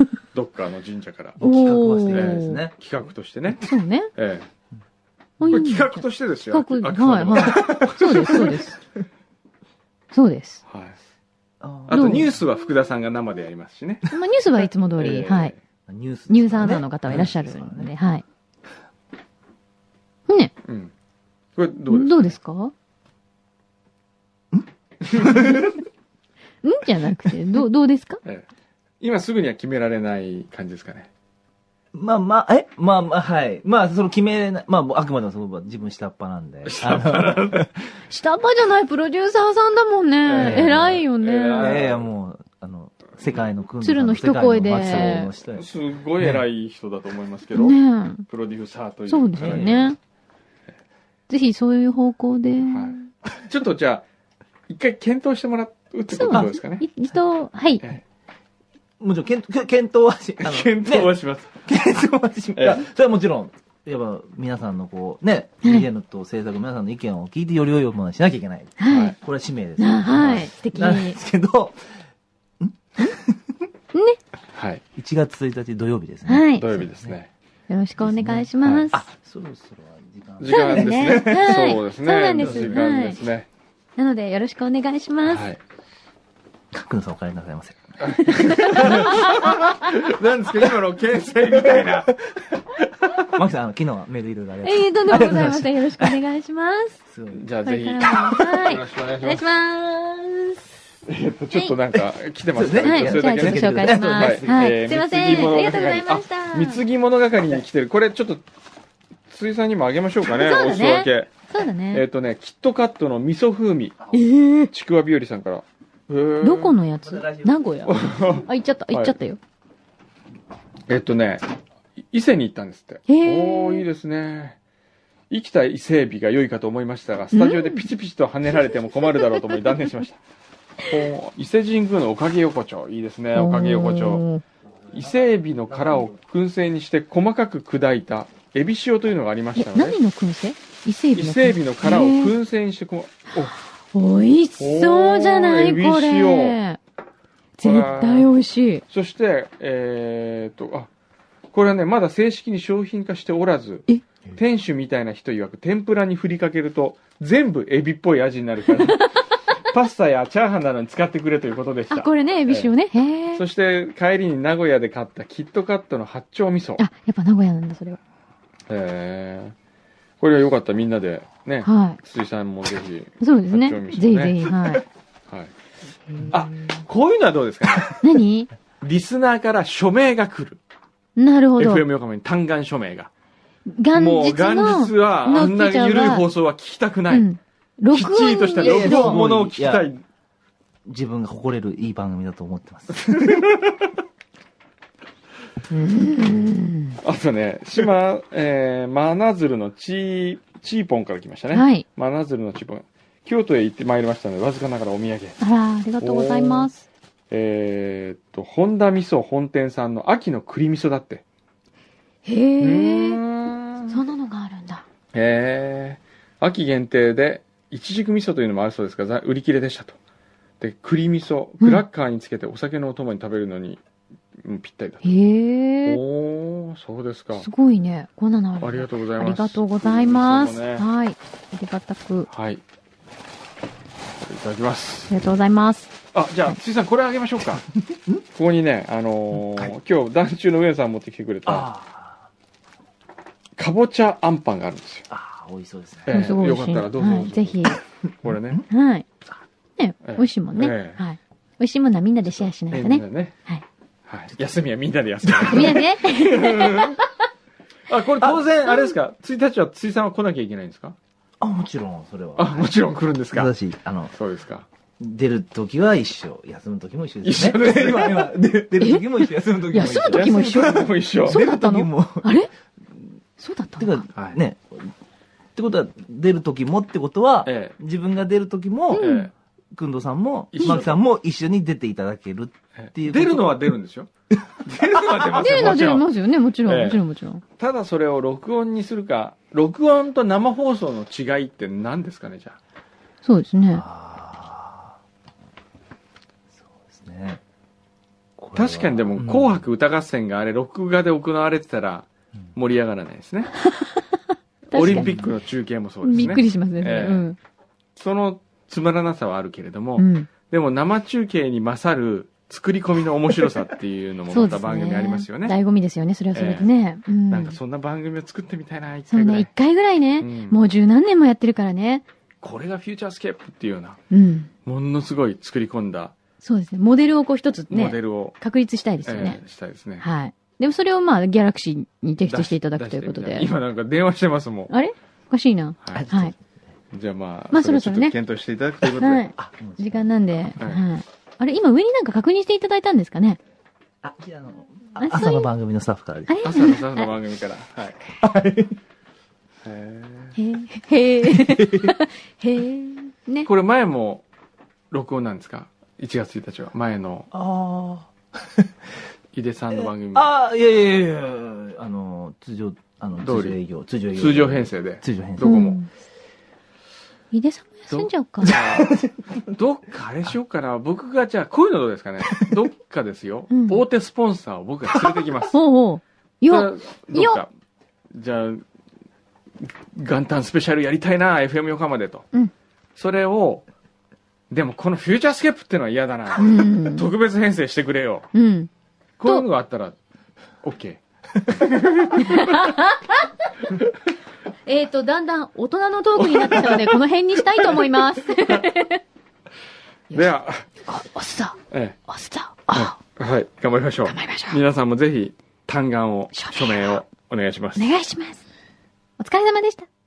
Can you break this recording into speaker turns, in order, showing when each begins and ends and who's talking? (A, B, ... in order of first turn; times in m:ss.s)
0:00.3-0:01.4 A
0:01.4-0:02.7 B
0:01.4-0:02.6 C
0:02.1-0:04.5 A
0:03.6-0:04.1 C
0:05.4-0:08.6 A
0:05.4-0:08.8 C
0:07.5-0:08.6 B
0:10.1-0:10.6 C
0:10.7-0:11.0 A
0:11.6-0:12.3 B
0:11.9-0:14.1 A
0:11.9-0:12.3 C
0:14.1-0:15.5 C
0:15.0-0:15.6 A
0:15.9-0:17.9 B
0:16.3-0:18.2 C
0:20.3-0:20.5 C
0:20.6-0:20.9 A
0:21.6-0:22.4 A
0:21.9-0:22.7 C
0:24.5-0:25.6 B
0:25.0-0:25.5 A
0:26.6-0:28.2 C
0:29.0-0:31.1 A
0:31.9-0:37.7 B
0:36.6-0:37.7 A
0:38.1-0:41.9 C
0:40.2-0:42.1 A
0:40.4-0:41.0 B
0:41.6-0:45.7 B
0:43.8-0:45.3 C
0:44.8-0:49.9 A
0:47.5-0:48.2 C
0:49.1-0:50.0 C
0:49.4-0:49.8 B
0:51.3-0:53.1 C
0:52.7-0:54.0 A
0:54.7-0:56.8 A
0:56.1-0:57.8 C
0:59.0-1:11.9 B
1:00.4-1:01.6 A
1:02.6-1:02.8 A
1:08.8-1:09.1 C
1:08.9-1:09.2 A
1:09.8-1:11.2 C
1:12.6-1:13.5 B
1:14.5-1:14.8 A
1:14.9-1:17.2 B
1:16.3-1:16.7 C
1:16.6-1:17.3 A
1:17.7-1:19.0 C
1:18.0-1:21.4 B
1:20.4-1:23.5 A
1:20.5-1:23.2 C
1:22.4-1:22.8 B
1:24.0-1:25.4 C
1:25.2-1:25.6 A
1:26.7-1:29.4 B
1:28.0-1:32.2 A
1:28.2-1:29.6 C
1:31.8-1:32.6 B
1:33.1-1:36.2 B
1:34.6-1:37.0 C
1:37.1-1:37.5 B
1:37.3-1:39.4 A
1:37.6-1:40.6 C
1:41.0-1:48.4 A
1:41.5-1:41.8 C
1:42.5-1:44.8 B
1:42.8-1:46.8 C
1:49.3-1:51.3 A
1:50.3-1:52.0 C
1:51.9-1:54.0 A
1:54.1-1:54.7 C
1:54.7-1:56.8 A
1:56.4-1:59.4 C
1:57.1-1:57.5 B
1:57.8-1:59.1 A
2:00.9-2:01.4 A
2:02.1-2:04.6 A
2:03.1-2:03.8 C
2:05.3-2:10.2 A
2:07.3-2:07.9 C
2:10.9-2:14.2 A
2:13.3-2:14.4 C
2:14.9-2:20.0 A
2:19.6-2:22.3 C
2:21.1-2:23.5 A
2:23.4-2:26.8 C
2:24.6-2:26.6 A
2:27.6-2:28.8 C
2:27.6-2:28.3 A
2:28.9-2:30.9 A
2:31.5-2:39.1 A
2:39.7-2:42.7 A
2:41.9-2:43.4 C
2:43.3-2:46.8 A
2:46.8-2:48.0 C
2:48.7-2:49.5 A
2:50.2-2:54.5 A
2:51.6-2:52.0 C
2:53.2-2:54.8 C
2:56.1-2:56.8 C
2:56.3-2:58.0 A
2:58.0-2:58.5 C
2:58.8-3:00.6 A
3:01.2-3:01.8 C
3:01.6-3:03.1 A
3:03.7-3:06.2 C
3:03.9-3:07.3 A
3:07.1-3:09.2 C
3:07.9-3:10.0 A
3:08.6-3:09.8 B
3:10.8-3:13.4 B
3:13.1-3:13.7 A
3:15.7-3:17.0 C
3:17.0-3:25.4 A
3:21.5-3:21.8 C
3:25.4-3:26.8 C
3:26.0-3:26.7 A
3:27.3-3:31.2 A
3:32.2-3:33.2 C
3:32.6-3:34.0 A
3:33.9-3:34.8 C
3:35.1-3:40.0 A
3:40.6-3:43.8 A
3:44.4-3:45.0 A
3:45.0-3:46.0 C
3:45.8-3:47.5 A
3:47.4-3:52.3 C
3:48.6-3:50.8 A
3:52.3-3:52.6 A
3:54.2-3:55.1 A
3:55.1-3:55.9 C
3:56.1-3:57.7 A
3:58.3-4:01.7 A
4:01.4-4:02.3 B
4:03.6-4:05.0 A
4:05.1-4:06.3 B
4:06.0-4:07.6 A
4:06.1-4:07.8 C
4:08.2-4:08.6 A
4:08.7-4:09.0 C
4:09.8-4:13.6 C
4:10.0-4:11.0 A
4:12.7-4:13.3 A
4:14.1-4:17.0 A
4:15.5-4:17.1 C
4:17.9-4:21.0 A
4:18.7-4:18.9 C
4:21.4-4:22.7 B
4:22.4-4:23.5 A
4:23.3-4:24.1 B
4:24.1-4:24.6 A
4:25.0-4:32.3 B
4:27.2-4:28.4 A
4:28.8-4:32.5 C
4:30.0-4:31.4 A
4:33.4-4:34.1 C
4:33.8-4:34.9 B
4:35.6-4:39.1 B
4:37.4-4:37.8 A
4:38.9-4:39.3 C
4:38.9-4:39.3 A
4:39.7-4:43.6 B
4:40.5-4:40.9 A
4:40.6-4:40.8 C
4:42.8-4:44.1 A
4:44.6-4:46.1 A
4:45.3-4:47.4 C
4:46.6-4:47.0 A
4:47.6-4:52.6 A
4:53.2-4:53.8 C
4:53.7-4:55.0 B
4:56.5-4:57.4 B
4:58.4-4:59.6 B
4:58.5-5:03.5 A
5:03.7-5:04.0 C
5:04.7-5:05.2 C
5:04.7-5:07.3 A
5:04.8-5:05.3 B
5:06.0-5:07.4 C
5:08.0-5:15.6 A
5:10.0-5:10.3 C
5:14.3-5:17.6 C
5:16.3-5:16.7 A
5:17.3-5:19.5 A
5:19.1-5:22.0 C
5:20.2-5:20.6 A
5:22.4-5:24.0 A
5:24.1-5:24.5 C
5:24.6-5:26.1 A
5:26.4-5:29.4 C
5:27.7-5:28.4 A
5:29.0-5:30.0 A
5:30.0-5:33.5 C
5:32.3-5:34.7 A
5:34.7-5:36.3 C
5:35.9-5:36.4 B
5:36.9-5:39.2 A
5:37.5-5:38.2 C
5:38.9-5:43.4 C
5:39.4-5:40.0 B
5:44.0-5:46.3 B
5:45.0-5:45.5 C
5:46.3-5:47.1 C
5:46.4-5:48.0 A
5:48.2-5:48.8 B
5:49.6-5:50.4 A
5:50.4-5:53.5 C
5:51.6-5:51.9 B
5:53.4-5:54.2 A
5:54.9-5:57.3 A
5:57.3-5:58.7 B
5:59.3-6:00.3 A
5:59.8-6:05.8 B
6:03.2-6:03.6 A
6:04.1-6:05.8 A
6:05.4-6:05.9 C
6:07.3-6:08.5 C
6:07.9-6:15.6 A
6:08.4-6:09.4 B
6:13.5-6:13.8 C
6:15.5-6:17.4 C
6:16.5-6:17.5 A
6:18.1-6:18.6 A
6:19.6-6:22.2 A
6:23.0-6:23.6 A
6:24.5-6:28.3 A
6:26.4-6:27.1 C
6:28.3-6:28.7 C
6:29.2-6:30.0 A
6:30.6-6:32.5 A
6:32.2-6:33.3 C
6:34.6-6:39.0 C
6:36.2-6:36.8 A
6:40.1-6:40.6 A
6:40.8-6:43.0 C
6:42.7-6:47.9 A
6:44.0-6:44.6 C
6:46.3-6:47.0 C
6:47.8-6:48.4 C
6:49.2-6:49.9 C